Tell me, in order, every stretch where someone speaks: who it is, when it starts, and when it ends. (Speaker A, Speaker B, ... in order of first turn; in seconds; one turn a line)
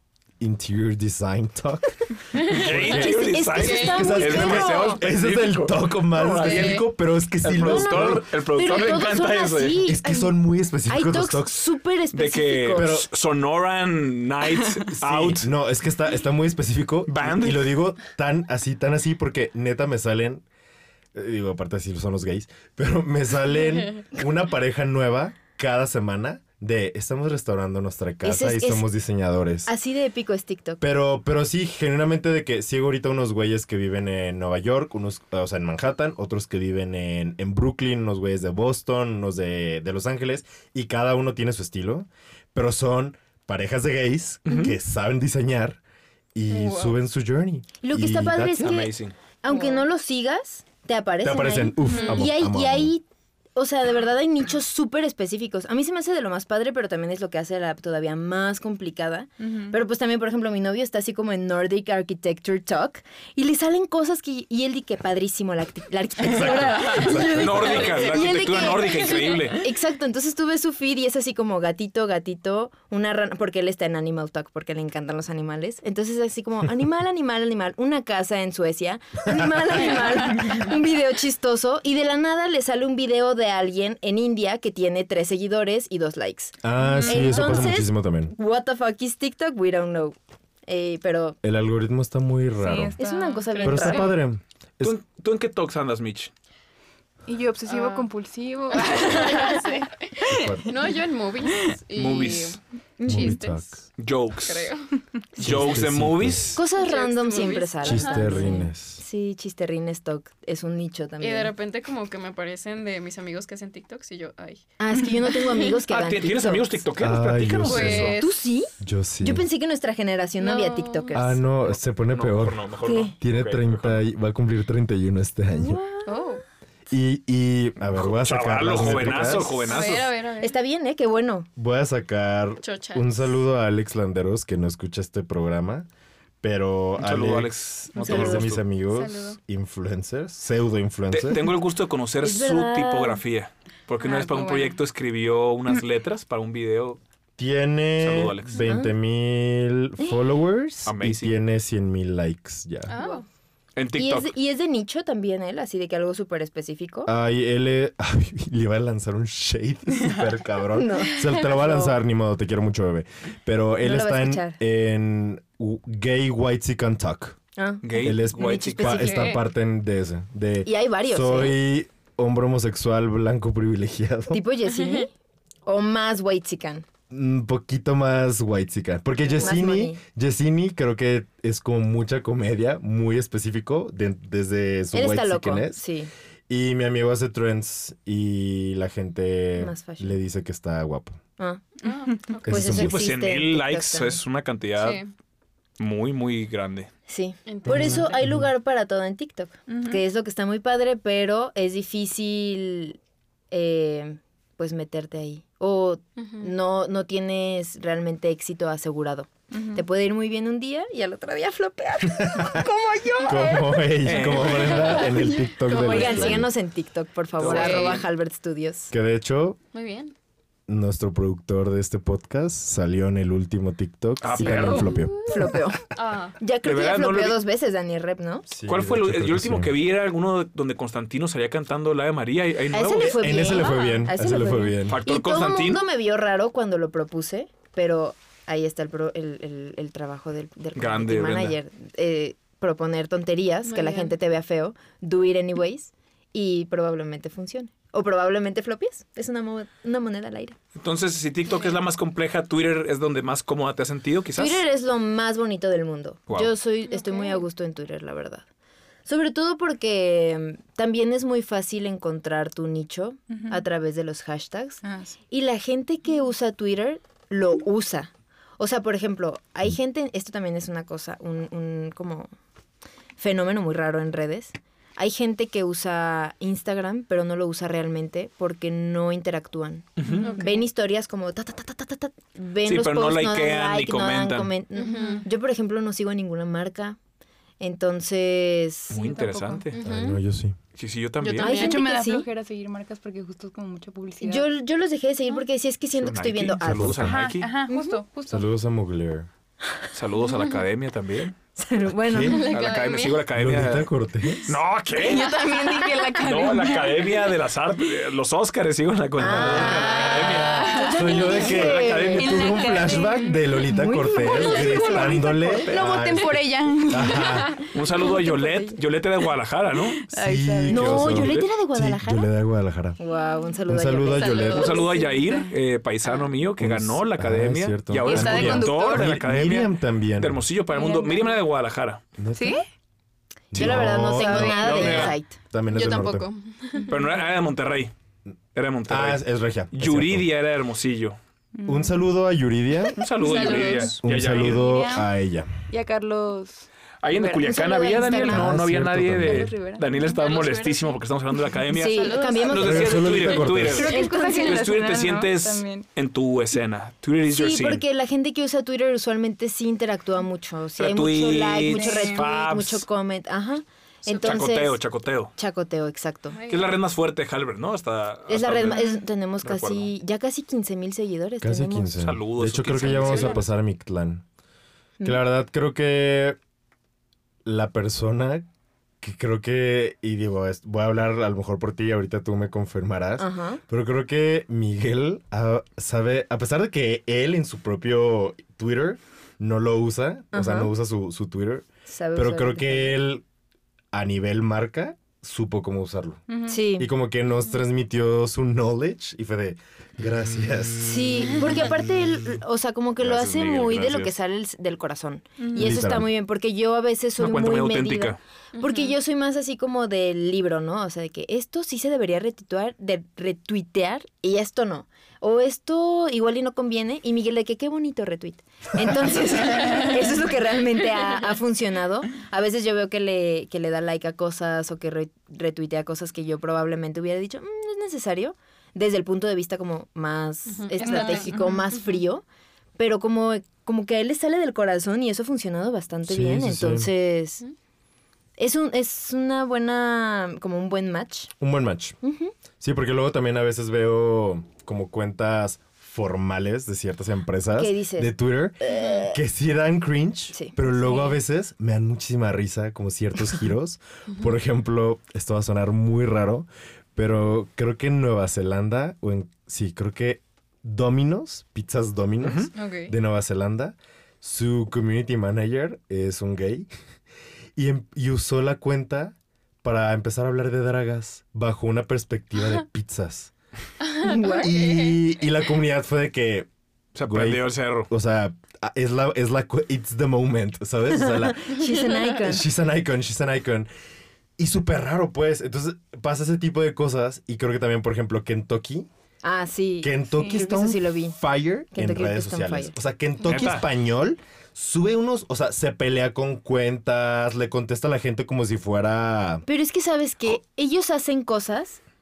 Speaker A: 0.4-8.3
Speaker B: 2.5-6.9
Speaker C: 2.6-5.0
Speaker D: 3.5-4.2
Speaker D: 6.4-6.8
Speaker B: 7.4-9.9
Speaker C: 7.6-10.3
Speaker A: 9.8-11.6
Speaker C: 10.9-13.0
Speaker B: 12.1-15.5
Speaker A: 12.7-13.1
Speaker A: 14.9-20.4
Speaker B: 17.1-17.7
Speaker A: 21.1-29.7
Speaker C: 28.2-28.9
Speaker C: 29.6-30.8
Speaker A: 30.8-45.8
Speaker B: 44.5-44.7
Speaker A: 46.3-48.8
Speaker D: 46.5-47.0
Speaker C: 47.8-53.0
Speaker B: 48.6-49.1
Speaker D: 49.5-49.8
Speaker A: 51.2-52.9
Speaker D: 51.8-52.2
Speaker C: 53.5-91.4
Speaker E: 59.4-59.7
Speaker A: 66.2-67.9
Speaker B: 67.3-69.6
Speaker A: 86.6-88.3
Speaker E: 86.8-87.6
Speaker A: 91.4-93.0
Speaker E: 92.6-94.0
Speaker C: 93.0-94.1
Speaker D: 93.6-94.1
Speaker A: 93.6-95.0
Speaker B: 94.8-96.3
Speaker E: 97.3-99.7
Speaker D: 97.7-98.1
Speaker D: 98.7-100.1
Speaker E: 100.2-100.7
Speaker A: 100.3-100.7
Speaker D: 100.6-103.7
Speaker B: 101.9-102.6
Speaker C: 103.0-103.4
Speaker A: 103.1-103.8
Speaker B: 104.0-104.7
Speaker D: 104.4-104.9
Speaker B: 105.4-106.6
Speaker A: 105.4-106.5
Speaker C: 106.5-111.5
Speaker D: 106.7-108.5
Speaker A: 107.8-109.0
Speaker D: 111.2-114.6
Speaker C: 114.8-116.8
Speaker B: 115.9-118.2
Speaker A: 117.0-118.2
Speaker D: 117.6-118.4
Speaker C: 117.9-121.4
Speaker A: 118.8-119.5
Speaker D: 120.4-121.3
Speaker A: 121.1-122.6
Speaker B: 121.6-124.0
Speaker C: 122.8-123.1
Speaker A: 123.2-125.8
Speaker C: 125.5-126.2
Speaker D: 126.0-126.4
Speaker A: 126.9-129.7
Speaker B: 127.9-130.1
Speaker D: 129.6-130.6
Speaker C: 129.7-131.5
Speaker A: 131.6-135.9
Speaker D: 132.6-133.2
Speaker A: 136.4-141.5
Speaker B: 137.0-138.6
Speaker C: 138.0-138.5
Speaker D: 138.9-139.4
Speaker B: 141.1-147.0
Speaker C: 142.2-143.2
Speaker E: 144.0-144.8
Speaker A: 147.4-152.9
Speaker B: 148.0-148.6
Speaker C: 148.6-148.9
Speaker B: 150.8-151.3
Speaker D: 152.9-153.2
Speaker B: 153.8-154.3
Speaker C: 153.9-157.1
Speaker A: 157.1-167.3
Speaker C: 160.7-161.9
Speaker C: 163.8-164.6
Speaker C: 167.6-169.4
Speaker B: 167.8-169.2
Speaker A: 168.0-174.4
Speaker D: 169.0-169.4
Speaker C: 170.6-171.6
Speaker C: 174.3-175.1
Speaker C: 175.7-176.8
Speaker A: 177.1-185.8
Speaker C: 179.3-180.0
Speaker C: 184.9-186.1
Speaker A: 186.5-191.2
Speaker C: 189.6-190.2
Speaker D: 191.8-192.7
Speaker A: 192.4-193.1
Speaker C: 192.4-194.2
Speaker B: 192.6-195.0
Speaker D: 194.8-195.1
Speaker B: 195.8-196.9
Speaker C: 197.1-203.0
Speaker D: 197.5-198.2
Speaker A: 197.7-198.5
Speaker E: 199.7-200.0
Speaker C: 203.5-214.6
Speaker D: 206.2-206.5
Speaker E: 209.5-209.8
Speaker A: 212.1-212.6
Speaker A: 213.2-216.5
Speaker B: 214.0-215.1
Speaker D: 214.7-216.4
Speaker C: 215.7-218.9
Speaker B: 217.4-218.0
Speaker D: 217.4-218.0
Speaker A: 218.9-219.6
Speaker D: 219.7-220.1
Speaker A: 220.7-225.3
Speaker B: 224.2-225.0
Speaker C: 224.4-225.8
Speaker D: 225.9-226.4
Speaker C: 226.4-228.5
Speaker B: 226.6-227.4
Speaker A: 228.5-229.7
Speaker B: 228.7-233.6
Speaker C: 232.7-250.6
Speaker A: 233.0-235.0
Speaker B: 234.9-235.8
Speaker B: 240.7-241.6
Speaker D: 243.6-244.1
Speaker B: 250.8-254.6
Speaker C: 254.3-258.4
Speaker D: 256.9-257.4
Speaker C: 259.1-272.3
Speaker E: 263.3-263.6
Speaker E: 264.8-265.1
Speaker C: 273.2-287.0
Speaker B: 280.0-280.3
Speaker E: 280.1-280.4
Speaker D: 280.2-280.6
Speaker B: 282.6-284.5
Speaker D: 284.7-285.3
Speaker C: 287.6-289.1
Speaker B: 288.9-289.8
Speaker E: 288.9-289.7
Speaker D: 289.7-290.2
Speaker A: 289.8-290.6
Speaker B: 290.7-291.6
Speaker D: 291.2-291.8
Speaker E: 291.4-294.5
Speaker C: 291.4-292.3
Speaker C: 294.2-297.0
Speaker B: 296.0-297.5
Speaker A: 296.6-297.2
Speaker E: 297.0-298.5
Speaker C: 297.7-298.0
Speaker A: 298.3-299.3
Speaker B: 299.9-301.4
Speaker C: 301.6-302.5
Speaker A: 301.9-302.4
Speaker D: 302.3-303.2
Speaker B: 302.5-303.9
Speaker A: 303.3-304.5
Speaker B: 304.4-305.3
Speaker E: 304.9-307.2
Speaker C: 305.4-305.9
Speaker B: 306.2-312.6
Speaker C: 309.2-315.7
Speaker A: 309.2-317.5
Speaker E: 309.9-311.5
Speaker E: 312.1-313.4
Speaker E: 314.1-318.3
Speaker B: 317.7-320.0
Speaker E: 320.0-321.2
Speaker A: 320.1-323.0
Speaker C: 320.7-322.3
Speaker B: 321.0-321.4
Speaker C: 323.0-324.9
Speaker A: 323.7-324.7
Speaker D: 324.2-325.0
Speaker B: 324.5-332.0
Speaker E: 324.7-325.5
Speaker A: 326.6-330.4
Speaker E: 328.0-329.2
Speaker E: 330.7-331.4
Speaker A: 332.2-332.6
Speaker E: 332.3-332.6
Speaker A: 333.5-336.3
Speaker C: 333.5-335.3
Speaker B: 333.6-335.2
Speaker E: 334.6-335.0
Speaker D: 335.7-336.9
Speaker B: 336.9-337.9
Speaker B: 338.5-341.2
Speaker A: 338.9-340.3
Speaker E: 341.6-342.0
Speaker A: 341.6-343.0
Speaker B: 343.0-344.7
Speaker D: 343.2-344.0
Speaker E: 343.3-343.8
Speaker A: 343.7-345.5
Speaker E: 344.4-345.1
Speaker E: 345.7-348.5
Speaker B: 347.0-357.8
Speaker C: 347.4-348.5
Speaker A: 348.2-349.5
Speaker E: 349.2-350.5
Speaker D: 350.1-350.9
Speaker C: 351.7-354.7
Speaker E: 351.9-352.8
Speaker D: 352.0-352.6
Speaker A: 352.5-353.9
Speaker E: 353.7-355.8
Speaker C: 357.3-364.8
Speaker B: 360.8-362.8
Speaker E: 361.7-362.3
Speaker B: 364.1-365.3
Speaker C: 365.4-366.4
Speaker D: 366.3-366.6
Speaker B: 366.5-369.9
Speaker C: 368.3-372.0
Speaker A: 371.4-374.2
Speaker B: 372.0-373.4
Speaker D: 373.0-373.4
Speaker A: 375.0-376.4
Speaker A: 377.4-378.4
Speaker A: 379.0-393.2
Speaker C: 383.2-383.6
Speaker C: 390.3-390.7
Speaker C: 391.9-393.0
Speaker A: 393.9-396.2
Speaker E: 396.3-396.6
Speaker C: 396.5-396.9
Speaker A: 396.8-401.6
Speaker C: 400.8-432.2
Speaker B: 403.0-404.1
Speaker E: 405.4-405.8
Speaker A: 405.5-406.1
Speaker B: 407.2-408.2
Speaker D: 408.6-408.9
Speaker D: 430.5-431.9
Speaker E: 430.8-431.6
Speaker C: 432.8-437.4
Speaker A: 436.1-436.9
Speaker C: 438.4-441.3
Speaker A: 441.4-442.0
Speaker C: 442.0-442.3
Speaker A: 442.6-466.7
Speaker C: 447.5-449.2
Speaker C: 450.3-451.2
Speaker B: 462.2-462.5
Speaker D: 462.5-462.9
Speaker A: 467.6-473.3
Speaker D: 474.0-475.0
Speaker C: 474.0-474.5
Speaker A: 474.1-476.5
Speaker B: 476.9-477.9
Speaker A: 477.0-483.7
Speaker C: 480.9-482.4
Speaker A: 484.4-488.9
Speaker C: 489.2-491.2
Speaker A: 489.8-499.4
Speaker E: 490.2-490.4
Speaker C: 491.7-492.7
Speaker B: 493.2-493.6
Speaker C: 499.4-501.8